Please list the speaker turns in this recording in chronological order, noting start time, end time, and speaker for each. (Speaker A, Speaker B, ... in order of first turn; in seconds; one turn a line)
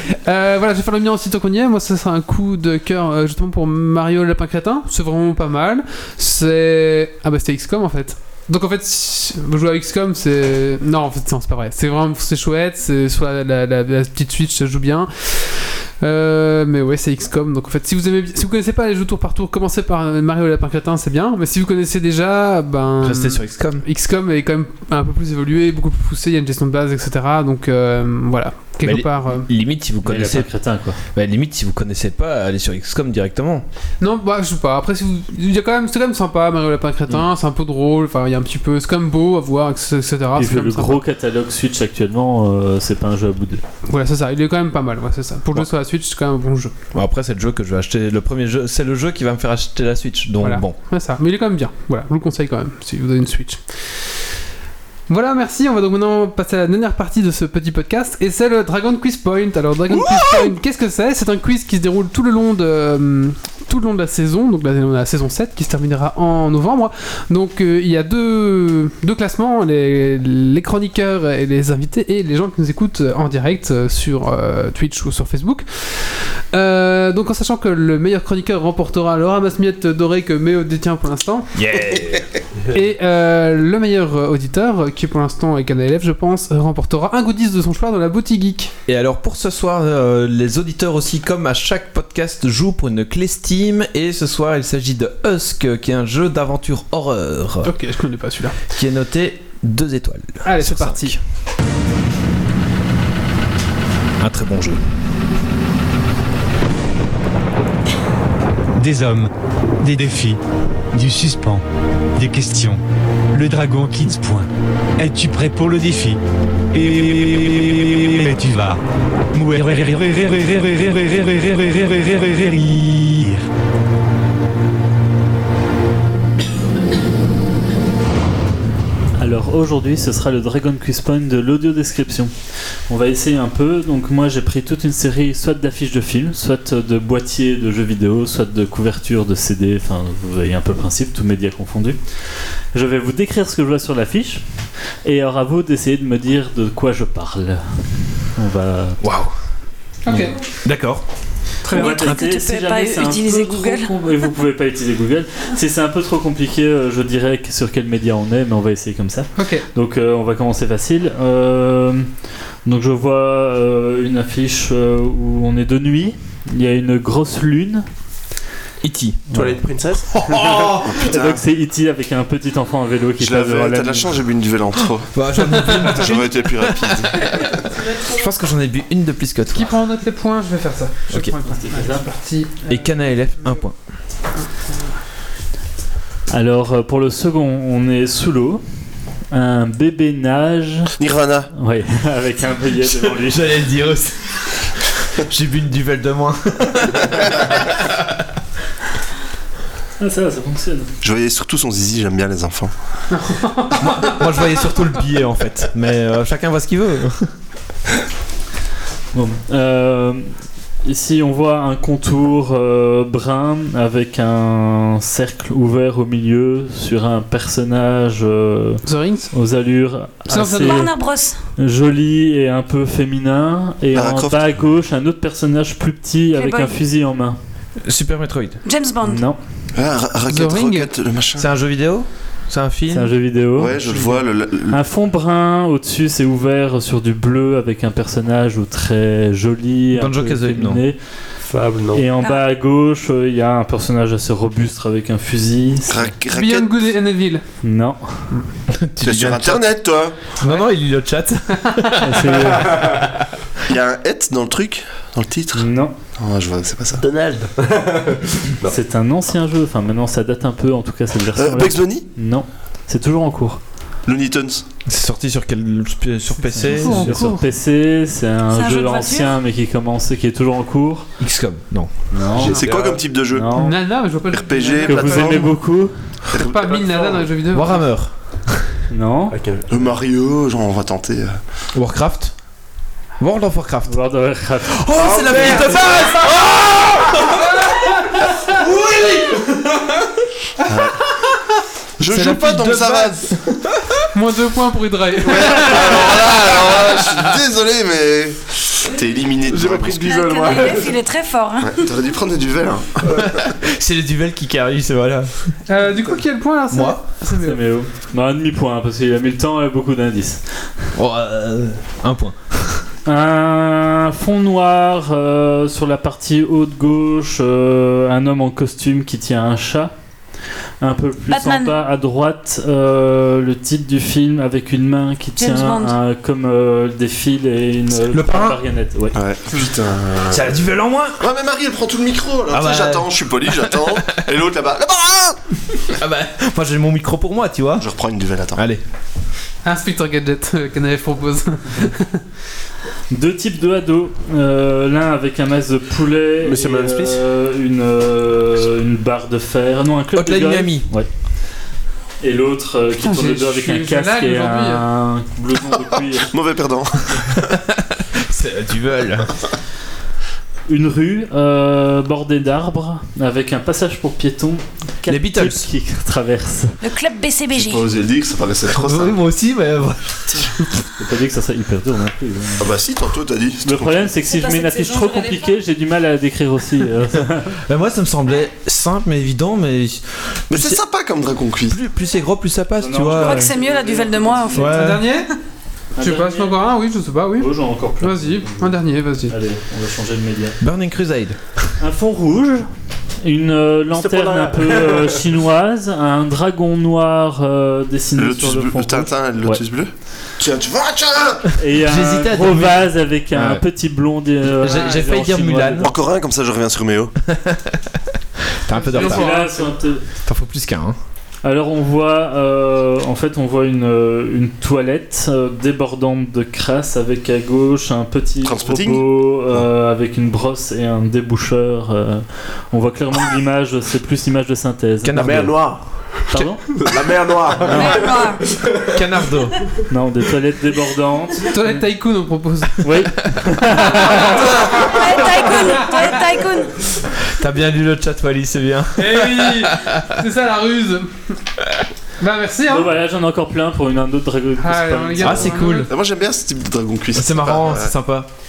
Speaker A: 0.2-29.5
Speaker B: 23.0-23.9
Speaker B: 28.8-30.5
Speaker C: 30.1-31.0
Speaker B: 31.1-33.6
Speaker A: 34.0-41.0
Speaker C: 40.4-43.6
Speaker A: 43.9-46.7
Speaker B: 46.9-50.8
Speaker A: 50.4-53.6
Speaker A: 55.1-81.5
Speaker B: 60.1-60.4
Speaker B: 81.5-82.3
Speaker A: 82.7-88.7
Speaker B: 88.9-97.7
Speaker A: 97.6-98.6
Speaker B: 98.7-101.2
Speaker A: 100.4-101.2
Speaker B: 104.2-104.8
Speaker D: 108.7-109.3
Speaker D: 109.8-110.4
Speaker D: 110.9-111.6
Speaker D: 112.2-112.8
Speaker D: 113.3-116.2
Speaker D: 116.7-118.8
Speaker D: 119.3-123.5
Speaker C: 129.2-132.3
Speaker C: 132.9-142.0
Speaker C: 142.7-144.4
Speaker C: 145.1-147.6
Speaker C: 148.3-149.1
Speaker B: 149.0-149.3
Speaker A: 150.0-150.3
Speaker B: 150.1-151.1
Speaker A: 151.7-152.0
Speaker C: 151.7-162.1
Speaker E: 151.7-153.9
Speaker A: 159.4-159.7
Speaker C: 162.7-167.9
Speaker B: 168.8-169.2
Speaker F: 169.3-170.2
Speaker B: 170.1-171.1
Speaker C: 170.7-174.2
Speaker G: 170.9-171.4
Speaker G: 173.2-175.1
Speaker B: 174.8-177.4
Speaker G: 175.7-177.7
Speaker B: 178.1-179.8
Speaker A: 179.5-182.8
Speaker C: 181.5-182.1
Speaker B: 182.7-183.8
Speaker C: 186.3-188.6
Speaker C: 189.3-190.9
Speaker G: 191.0-191.5
Speaker C: 191.6-193.5
Speaker B: 193.1-194.2
Speaker B: 195.2-198.2
Speaker C: 200.0-200.9
Speaker G: 201.0-202.7
Speaker A: 203.1-204.2
Speaker B: 203.8-207.3
Speaker C: 209.1-210.3
Speaker C: 210.8-220.9
Speaker A: 218.8-219.3
Speaker A: 220.3-220.9
Speaker E: 220.6-221.4
Speaker C: 221.6-227.4
Speaker G: 223.9-224.4
Speaker E: 226.3-226.8
Speaker B: 227.8-228.6
Speaker E: 228.6-229.2
Speaker C: 229.0-229.4
Speaker G: 229.8-231.5
Speaker A: 230.3-230.9
Speaker B: 231.4-233.1
Speaker C: 232.9-234.1
Speaker G: 233.6-234.8
Speaker C: 234.7-241.0
Speaker B: 239.9-240.8
Speaker F: 241.5-242.1
Speaker C: 241.9-246.1
Speaker E: 242.2-242.4
Speaker G: 245.9-246.9
Speaker A: 246.3-247.4
Speaker C: 247.6-248.3
Speaker B: 248.7-249.7
Speaker G: 249.0-250.3
Speaker B: 250.4-253.3
Speaker C: 252.0-253.0
Speaker F: 252.5-252.9
Speaker G: 253.7-257.0
Speaker C: 255.6-255.9
Speaker F: 257.0-258.8
Speaker C: 258.7-263.6
Speaker G: 261.4-262.1
Speaker G: 264.1-264.7
Speaker B: 264.9-267.2
Speaker A: 266.6-267.4
Speaker C: 266.7-271.1
Speaker E: 268.5-269.4
Speaker B: 271.2-271.9
Speaker C: 272.1-272.6
Speaker G: 272.4-273.5
Speaker F: 272.5-273.0
Speaker C: 273.3-273.8
Speaker A: 273.5-275.6
Speaker G: 274.3-275.5
Speaker C: 274.8-275.9
Speaker A: 276.3-277.8
Speaker F: 276.5-277.3
Speaker B: 277.5-278.7
Speaker C: 278.9-279.4
Speaker F: 279.3-280.0
Speaker G: 279.7-281.4
Speaker B: 281.8-282.3
Speaker B: 283.2-284.0
Speaker C: 283.9-285.6
Speaker B: 284.6-290.0
Speaker F: 285.0-285.9
Speaker G: 292.0-293.3
Speaker B: 292.1-294.1
Speaker A: 294.1-295.9
Speaker G: 295.2-300.2
Speaker F: 299.5-301.0
Speaker E: 300.0-301.9
Speaker G: 301.6-303.2
Speaker B: 303.2-305.4
Speaker A: 305.7-307.6
Speaker B: 306.7-307.0
Speaker C: 307.3-310.7
Speaker B: 310.9-312.9
Speaker C: 313.1-319.9
Speaker C: 320.8-329.2
Speaker E: 321.3-321.8
Speaker E: 325.4-326.0
Speaker B: 328.1-328.6
Speaker G: 329.1-330.6
Speaker B: 330.3-331.2
Speaker G: 331.2-335.4
Speaker B: 332.5-334.0
Speaker B: 335.9-337.9
Speaker G: 337.8-338.6
Speaker B: 338.6-338.8
Speaker A: 339.6-342.2
Speaker C: 343.1-351.1
Speaker F: 346.4-347.2
Speaker B: 350.1-350.9
Speaker C: 352.2-356.4
Speaker A: 353.1-354.8
Speaker G: 356.1-357.5
Speaker B: 357.5-359.4
Speaker C: 360.7-366.8
Speaker B: 365.1-365.7
Speaker E: 366.8-367.9
Speaker G: 367.5-369.2
Speaker B: 368.7-370.8
Speaker C: 371.0-372.7
Speaker G: 372.6-374.1
Speaker C: 373.6-377.6
Speaker E: 374.2-375.6
Speaker B: 377.7-380.8
Speaker G: 380.5-381.8
Speaker B: 381.7-383.5
Speaker C: 382.8-384.7
Speaker E: 383.1-384.7
Speaker B: 384.5-385.1
Speaker A: 384.7-385.3
Speaker C: 386.0-386.6
Speaker A: 386.0-387.5
Speaker C: 387.4-390.6
Speaker A: 388.0-389.3
Speaker B: 390.6-391.6
Speaker C: 391.8-392.7
Speaker C: 393.2-399.6
Speaker F: 393.9-395.2
Speaker G: 398.2-401.5
Speaker C: 401.6-405.9
Speaker B: 401.8-403.6
Speaker B: 404.6-405.9
Speaker A: 404.7-405.1
Speaker G: 405.8-407.1
Speaker B: 407.3-408.0
Speaker B: 408.5-409.5
Speaker A: 408.7-409.7
Speaker C: 408.9-410.0
Speaker B: 410.2-411.0
Speaker C: 411.4-425.5
Speaker G: 418.4-419.1
Speaker B: 425.0-425.8
Speaker F: 425.2-426.0
Speaker C: 426.3-426.7
Speaker F: 426.7-429.0
Speaker C: 427.6-428.2
Speaker E: 427.7-428.5
Speaker B: 428.9-429.6
Speaker C: 429.9-431.9
Speaker A: 431.5-432.9
Speaker C: 432.8-435.8
Speaker E: 434.0-436.8
Speaker B: 437.2-440.2
Speaker A: 439.0-441.1
Speaker A: 442.2-442.9
Speaker C: 442.7-445.7
Speaker A: 444.6-445.9
Speaker B: 445.2-445.9
Speaker G: 445.9-447.9
Speaker B: 447.1-448.3